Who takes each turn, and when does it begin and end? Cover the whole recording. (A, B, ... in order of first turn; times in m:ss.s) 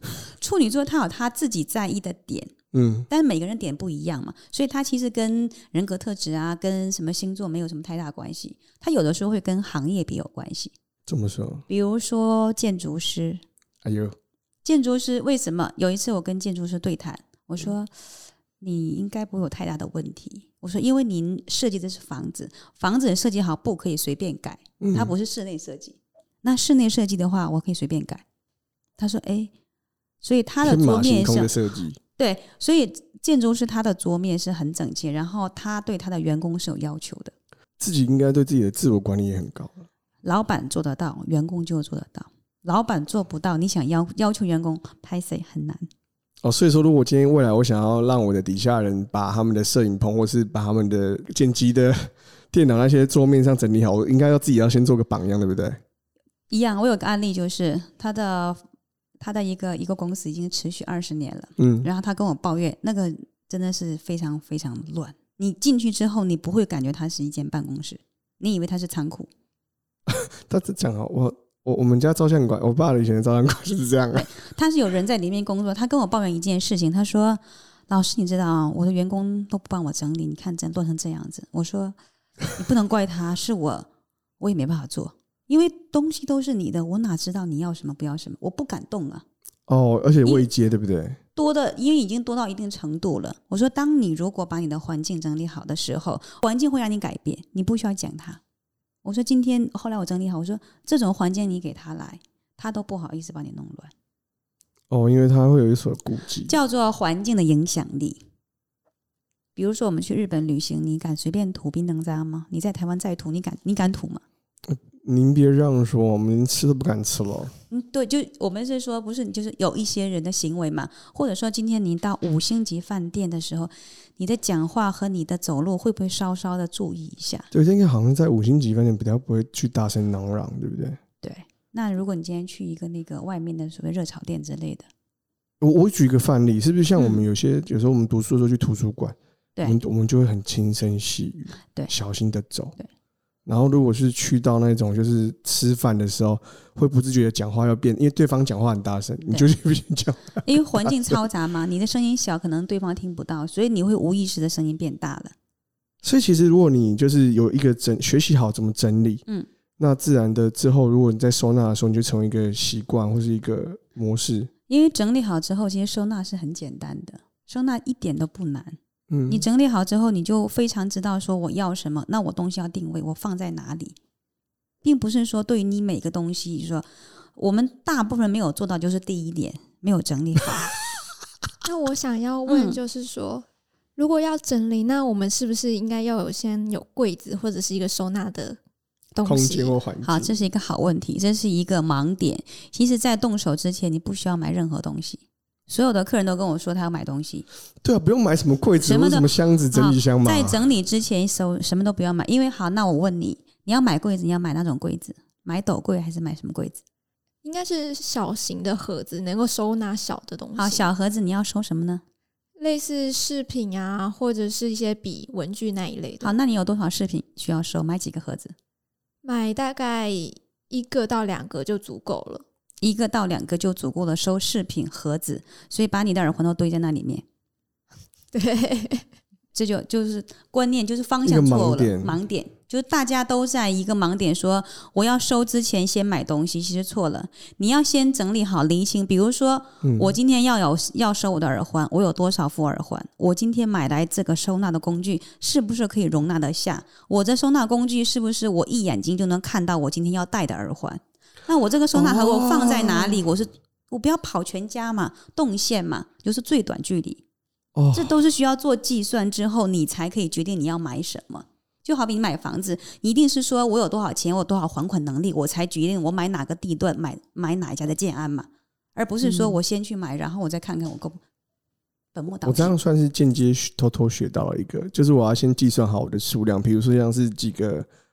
0:00.4-0:02.5 A
0:02.7-0:03.1 B
0:03.1-0:10.7 A
0:11.1-0:11.6 B
0:11.7-0:13.4 A
0:13.8-0:14.1 B
0:14.6-0:18.0 A
0:18.6-0:28.2 A
0:24.8-0:25.1 B
0:29.0-0:29.5 A
0:30.2-0:31.6 A
0:30.6-0:32.0 B
0:32.2-0:37.3 A
0:37.8-0:39.8 B
0:40.2-0:45.9 A
0:46.4-0:55.8 B
0:56.5-0:58.6 A
0:59.2-1:09.3 A
1:01.6-1:01.9 B
1:10.1-1:14.3 B
1:14.1-1:22.0 A
1:22.5-1:23.9 A
1:24.4-1:29.2 A
1:29.7-1:31.2 B
1:31.3-1:38.4 A
1:39.0-1:43.9 A
1:44.9-1:46.5 B
1:46.4-1:48.2 A
1:49.6-1:54.2 A
1:54.7-1:57.5 B
1:57.7-2:07.5 A
2:07.5-2:11.0 B
2:11.2-2:14.9 A
2:15.6-2:22.7 B
2:17.0-2:17.2 A
2:23.4-2:31.2 B
2:30.4-2:35.3 A
2:36.0-2:39.2 B
2:39.8-2:44.5 B
2:44.7-2:48.8 A
2:49.1-2:49.4 B
2:49.3-2:54.0 A
2:54.8-2:56.8 A
2:57.4-3:00.8 A
3:01.6-3:08.6 C
3:02.5-3:02.8 A
3:09.2-3:09.8 C
3:09.2-3:10.3 B
3:10.0-3:17.4 A
3:17.8-3:20.6 B
3:18.8-3:26.8 A
3:27.4-3:30.9 C
3:30.5-3:32.0 A
3:32.6-3:36.3 C
3:36.2-3:38.5 A
3:39.2-3:42.4 C
3:42.8-3:47.2 A
3:48.3-3:49.0 C
3:49.5-4:17.2 A
3:51.2-3:52.2 B
3:59.8-4:00.2 B
4:11.9-4:13.2 B
4:17.7-4:18.2 B
4:17.9-4:31.2 A
4:32.1-4:32.8 A
4:32.4-4:37.9 B